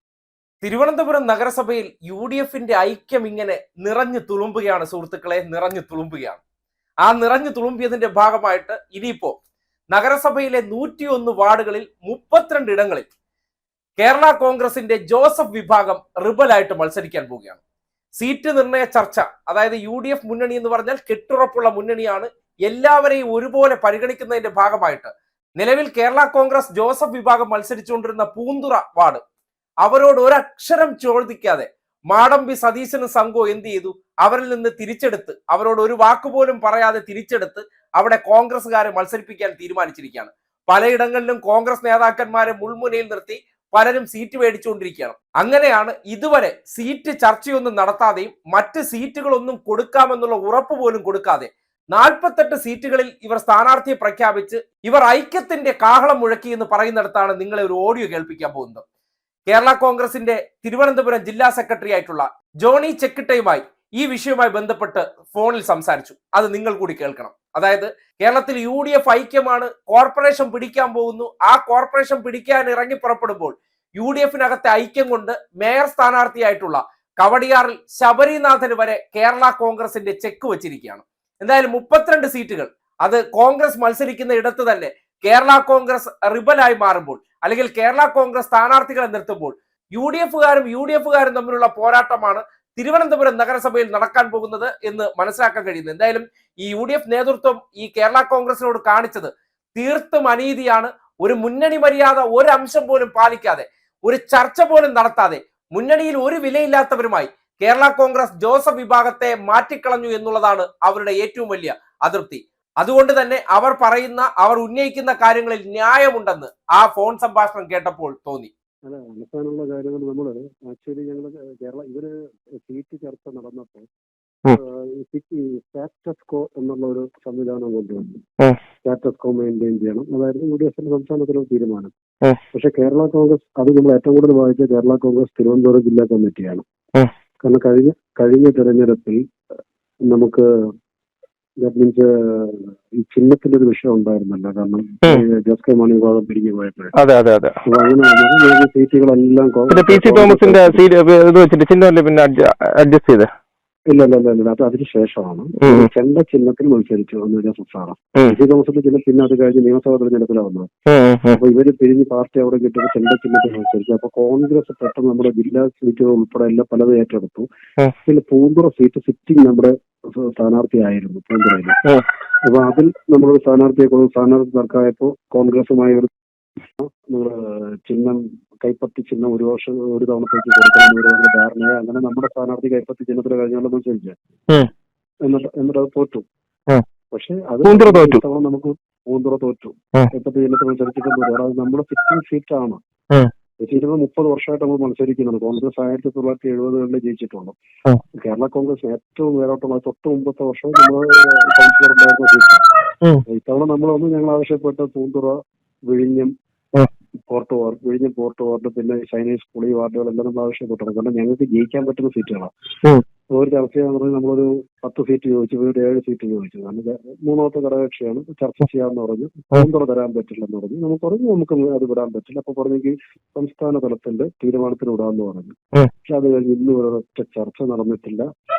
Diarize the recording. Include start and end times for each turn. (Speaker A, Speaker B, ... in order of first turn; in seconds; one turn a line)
Speaker A: 0.6-6.4
Speaker A: 7.0-9.3
Speaker A: 9.9-13.1
Speaker A: 14.0-17.6
Speaker A: 18.2-29.2
Speaker A: 29.8-58.8
Speaker A: 59.5-118.5
Speaker B: 118.9-122.1
Speaker B: 122.6-123.9
Speaker B: 124.9-128.2
Speaker B: 128.9-131.9
Speaker B: 132.7-136.6
Speaker B: 137.5-139.2
Speaker B: 140.1-140.5
Speaker B: 141.6-146.9
Speaker C: 147.0-147.6
Speaker B: 147.7-150.7
Speaker C: 149.7-153.3
Speaker B: 153.9-158.0
Speaker C: 155.6-155.9
Speaker B: 158.5-160.7
Speaker C: 160.9-161.4
Speaker B: 161.5-167.4
Speaker B: 168.1-171.8
Speaker B: 172.5-176.1
Speaker B: 177.9-184.2
Speaker B: 185.3-186.2
Speaker B: 187.1-192.8
Speaker C: 187.6-188.2
Speaker B: 193.6-197.6
Speaker B: 198.2-202.6
Speaker B: 203.4-205.4
Speaker B: 205.9-206.3
Speaker B: 207.3-212.5
Speaker B: 213.4-225.6
Speaker B: 226.1-228.3